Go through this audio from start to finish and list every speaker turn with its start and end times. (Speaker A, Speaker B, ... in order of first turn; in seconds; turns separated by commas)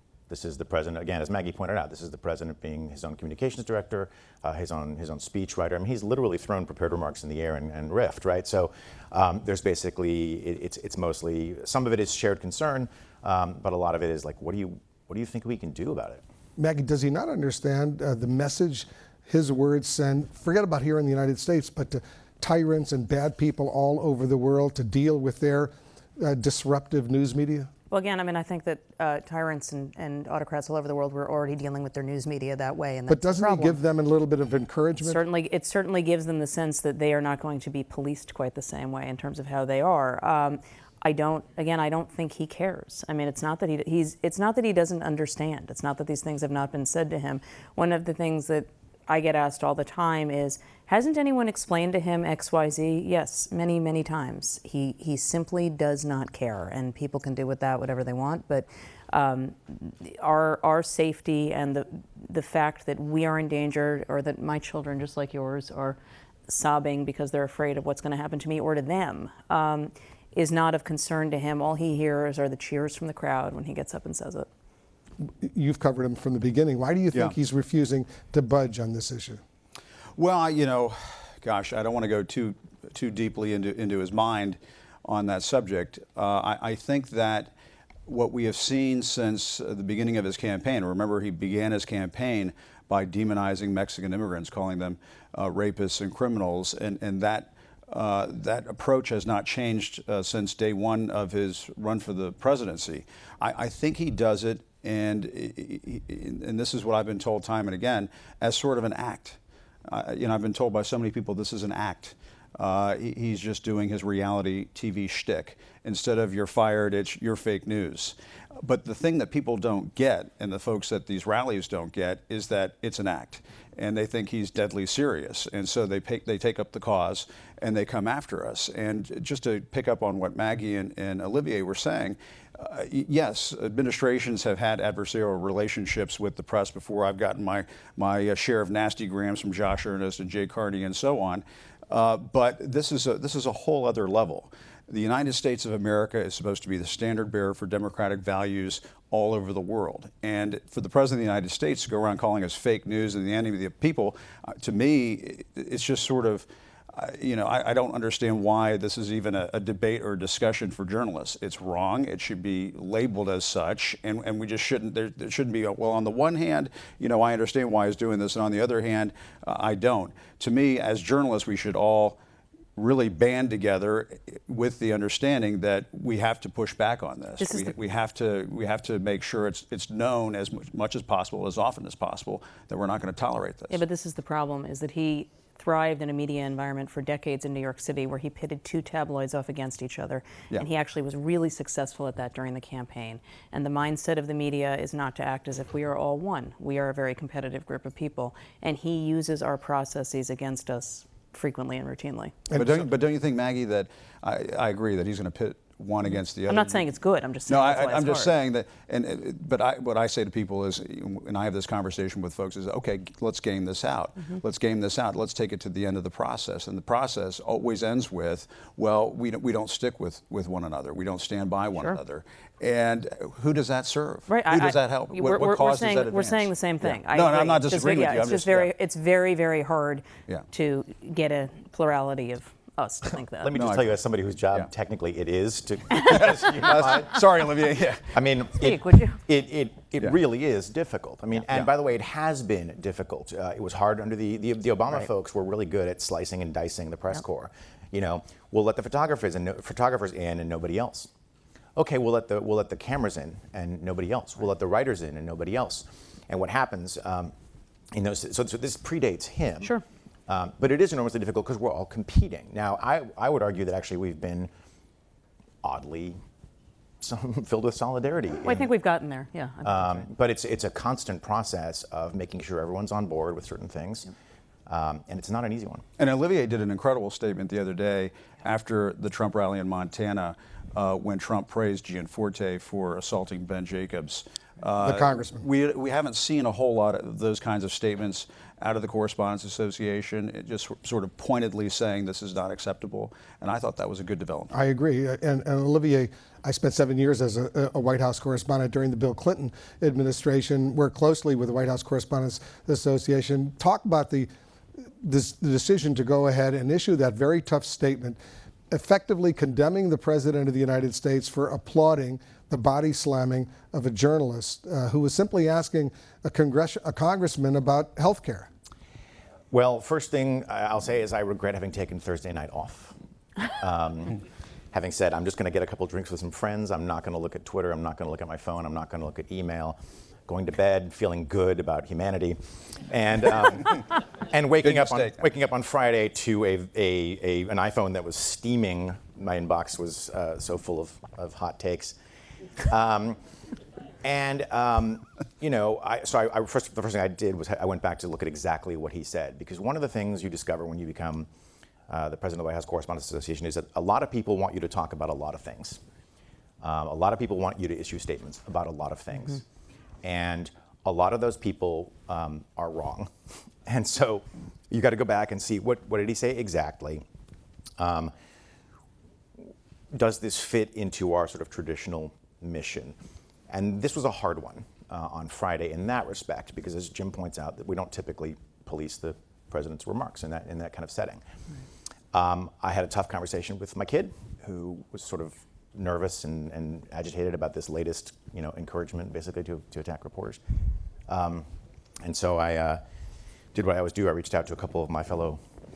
Speaker A: 0.3-16.2, Speaker B: 16.6-27.7, Speaker C: 27.9-33.8, Speaker B: 33.1-35.2, Speaker C: 35.0-74.5, Speaker B: 75.2-79.4, Speaker D: 80.2-87.5, Speaker D: 88.0-172.2, Speaker D: 172.8-183.8, Speaker C: 177.4-177.7, Speaker C: 183.7-202.4, Speaker D: 202.5-206.8, Speaker C: 206.5-208.3, Speaker D: 207.5-228.7, Speaker C: 224.3-233.5, Speaker A: 233.4-251.1, Speaker D: 233.5-233.9, Speaker D: 235.9-238.2, Speaker C: 238.6-239.2, Speaker A: 251.8-257.3, Speaker A: 257.9-259.7, Speaker A: 260.3-264.5, Speaker A: 265.6-266.2, Speaker A: 267.0-268.7, Speaker C: 268.4-270.0, Speaker A: 269.6-274.1, Speaker A: 274.7-275.8, Speaker D: 276.0-294.5, Speaker B: 284.8-285.4, Speaker B: 294.5-304.3, Speaker B: 305.0-308.2, Speaker B: 308.7-318.5, Speaker A: 319.5-322.9, Speaker A: 323.5-324.2, Speaker A: 324.7-341.9, Speaker D: 334.6-335.2, Speaker A: 342.6-343.2, Speaker A: 344.0-351.3, Speaker A: 351.9-355.8, Speaker A: 356.6-359.4, Speaker A: 360.0-363.1, Speaker A: 363.6-367.0, Speaker A: 367.8-368.1, Speaker A: 369.9-372.9, Speaker A: 373.5-381.2, Speaker A: 382.1-390.4, Speaker A: 391.1-391.5, Speaker A: 392.0-392.8, Speaker A: 393.5-395.4